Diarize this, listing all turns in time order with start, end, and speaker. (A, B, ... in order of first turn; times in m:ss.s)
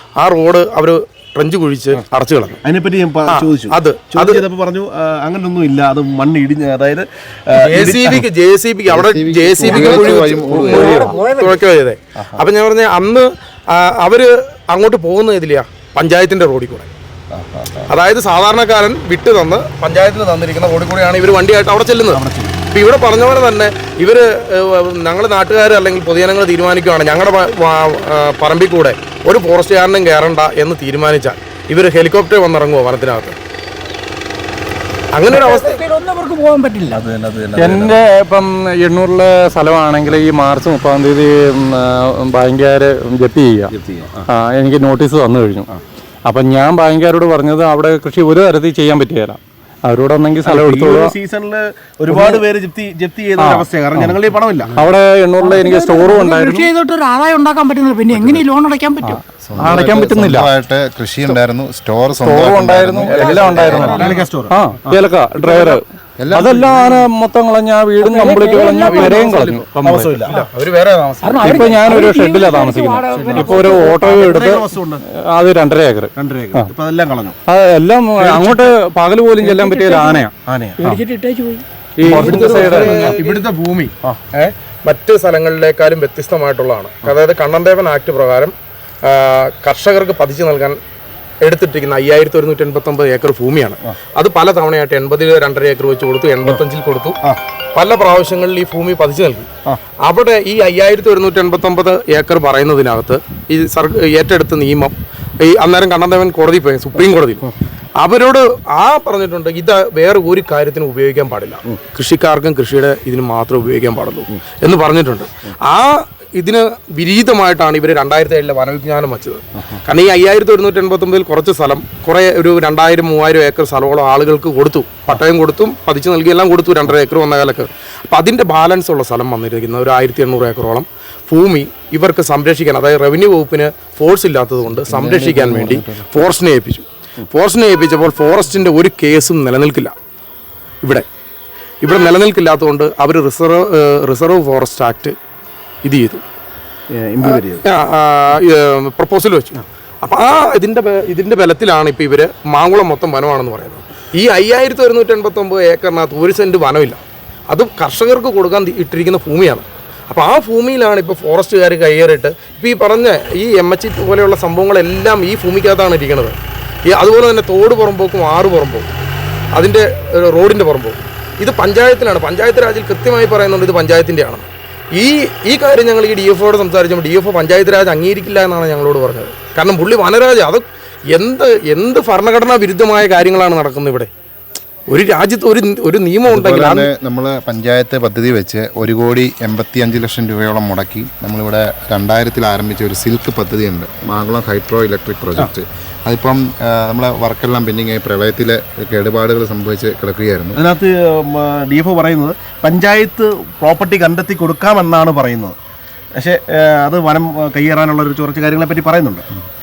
0:00.2-0:02.6 A
0:02.6-0:08.2 B
0:03.3-0:04.4 A
0:07.6-0:16.9 A
0:08.9-0:11.2 C
0:09.6-0:11.6 D
0:17.3-0:17.8 B
0:17.9-0:33.4 A
0:22.1-0:22.7 B
0:35.1-0:35.8 A
0:35.3-0:37.0 D
0:36.9-0:37.9 B
0:37.6-0:43.7 E
0:43.7-0:44.2 B
0:44.2-0:45.7 E
0:46.2-0:51.1 E
0:50.4-0:54.9 B
0:52.1-0:52.4 E
0:53.4-0:54.2 E
0:54.8-0:56.7 E
0:55.4-0:59.2 D
0:59.1-1:00.5 E
0:59.4-1:04.1 C
1:02.2-1:10.2 E
1:03.1-1:05.7 B
1:03.3-1:04.1 A
1:06.2-1:07.1 C
1:08.0-1:09.3 D
1:08.8-1:09.6 A
1:09.8-1:10.4 B
1:10.3-1:11.8 A
1:11.2-1:14.0 D
1:11.4-1:16.7 E
1:13.1-1:15.0 B
1:16.2-1:17.4 B
1:17.5-1:20.3 E
1:18.2-1:18.7 A
1:19.4-1:20.2 D
1:20.5-1:21.0 B
1:20.8-1:21.6 D
1:22.0-1:23.2 E
1:22.0-1:30.8 A
1:22.1-1:23.4 B
1:31.4-1:37.2 A
1:37.7-1:39.5 A
1:40.0-1:47.5 A
1:48.0-2:19.9 A
2:14.6-2:16.2 C
2:21.8-2:25.2 A
2:25.8-2:26.2 A
2:26.9-2:27.6 B
2:27.2-2:48.9 A
2:49.5-3:04.1 A
3:04.9-3:06.9 A
3:06.2-3:20.6 C
3:20.5-3:25.6 B
3:26.2-3:29.2 B